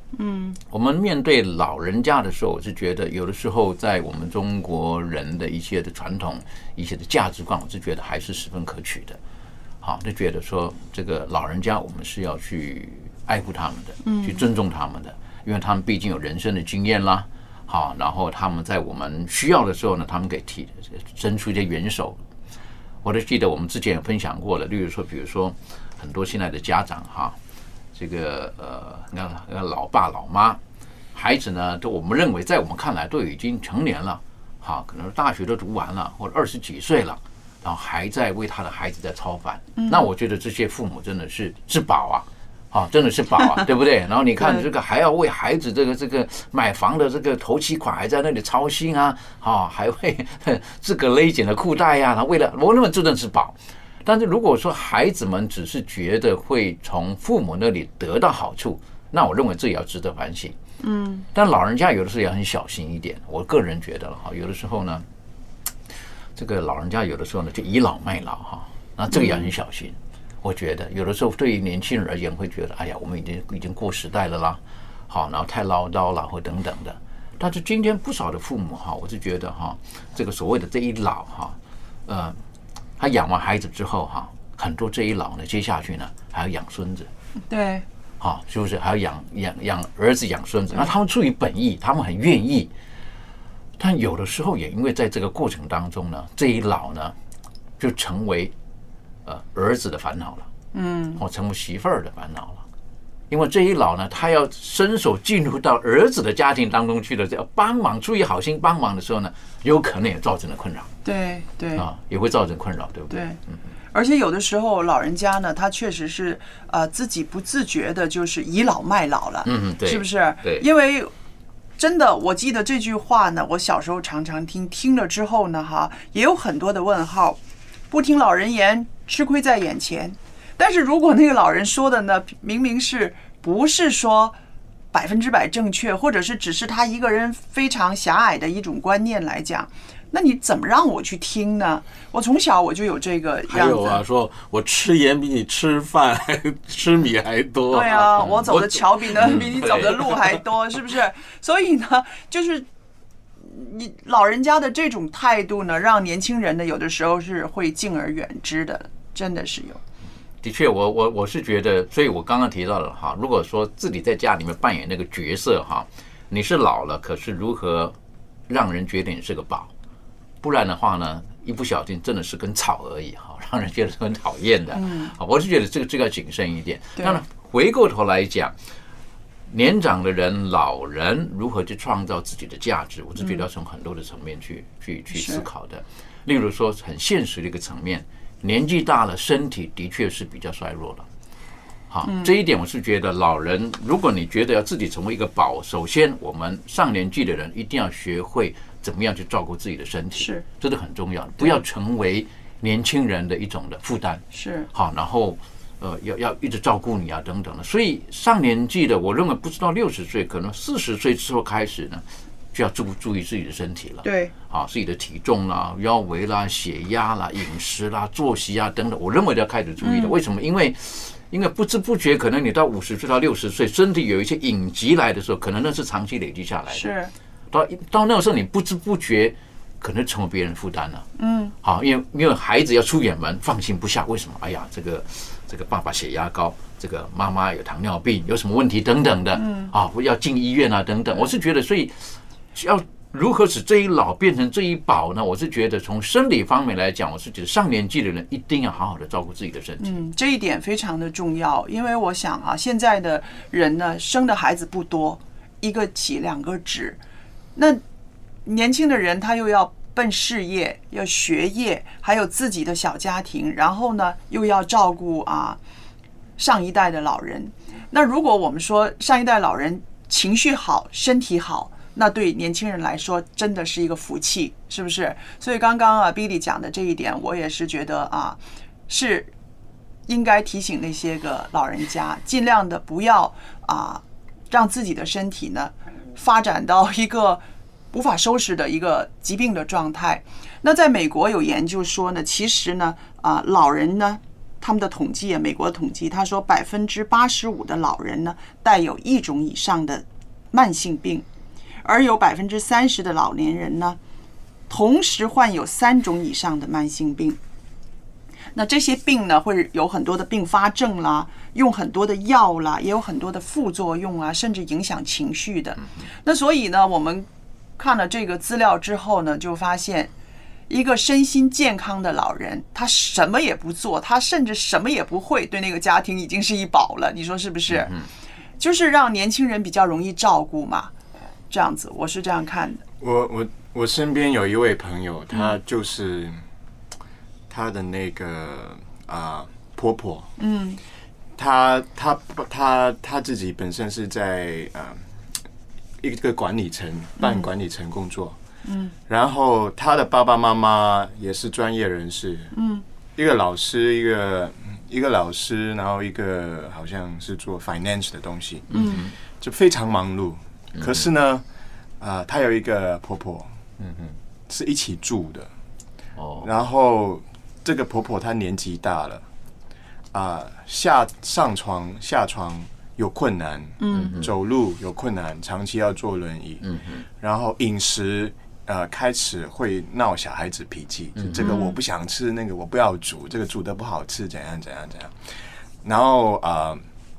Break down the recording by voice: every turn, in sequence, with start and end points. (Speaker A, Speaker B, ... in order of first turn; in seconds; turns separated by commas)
Speaker A: 0.1-0.6, Speaker B: 0.7-9.2, Speaker B: 9.8-22.2, Speaker A: 14.1-14.4, Speaker B: 23.0-27.4, Speaker B: 27.9-30.6, Speaker B: 31.1-60.6, Speaker A: 39.8-40.1, Speaker A: 44.4-44.6, Speaker A: 60.8-61.3, Speaker B: 61.3-65.0, Speaker B: 66.3-82.4, Speaker A: 69.1-69.5, Speaker B: 83.0-87.1, Speaker A: 87.5-87.9, Speaker B: 88.2-92.7, Speaker B: 93.8-97.2, Speaker B: 97.8-98.5, Speaker B: 99.2-100.5, Speaker A: 100.7-101.2, Speaker B: 101.2-102.6, Speaker B: 103.3-110.9, Speaker A: 111.0-111.8, Speaker B: 111.8-113.6, Speaker A: 113.1-113.4, Speaker A: 113.9-121.1, Speaker B: 119.5-120.7, Speaker A: 121.8-127.4, Speaker A: 127.9-134.4, Speaker A: 134.9-144.0, Speaker C: 143.5-150.2, Speaker A: 147.7-152.7, Speaker B: 149.6-150.0, Speaker A: 153.4-159.8, Speaker B: 160.4-168.0, Speaker B: 168.5-169.7, Speaker B: 170.4-178.6, Speaker A: 174.7-175.1, Speaker B: 179.5-191.1, Speaker A: 183.2-183.4, Speaker A: 185.1-185.4, Speaker B: 191.9-226.9, Speaker A: 192.1-192.3, Speaker A: 200.2-200.4, Speaker A: 204.3-204.7, Speaker A: 214.0-214.3, Speaker A: 219.8-220.2, Speaker A: 226.7-227.1, Speaker B: 227.5-231.1, Speaker A: 231.2-231.6, Speaker B: 231.6-249.9, Speaker A: 239.3-239.7, Speaker A: 249.8-257.0, Speaker A: 257.6-257.8, Speaker A: 258.4-265.6, Speaker A: 266.4-279.3, Speaker A: 280.1-301.3, Speaker A: 301.8-304.0, Speaker A: 304.7-307.4, Speaker A: 308.6-317.3, Speaker A: 317.8-320.1, Speaker A: 320.7-328.0, Speaker B: 327.7-328.1, Speaker A: 328.6-330.9, Speaker A: 331.5-332.8, Speaker D: 333.0-336.4, Speaker D: 337.5-340.3, Speaker A: 340.4-340.8, Speaker D: 341.4-345.1, Speaker D: 346.0-348.4, Speaker A: 347.2-347.5, Speaker A: 348.6-348.9, Speaker D: 349.1-352.5, Speaker A: 352.5-352.8, Speaker D: 353.2-361.4, Speaker B: 358.7-359.1, Speaker A: 358.8-359.0, Speaker B: 360.7-361.1, Speaker D: 362.0-363.5, Speaker B: 363.8-364.2, Speaker D: 364.5-365.5, Speaker B: 366.2-366.5, Speaker D: 366.4-369.2, Speaker D: 370.1-376.6, Speaker A: 373.8-374.2, Speaker B: 373.9-374.3, Speaker B: 376.6-377.1, Speaker D: 377.2-386.8, Speaker B: 381.2-381.6, Speaker A: 381.4-381.8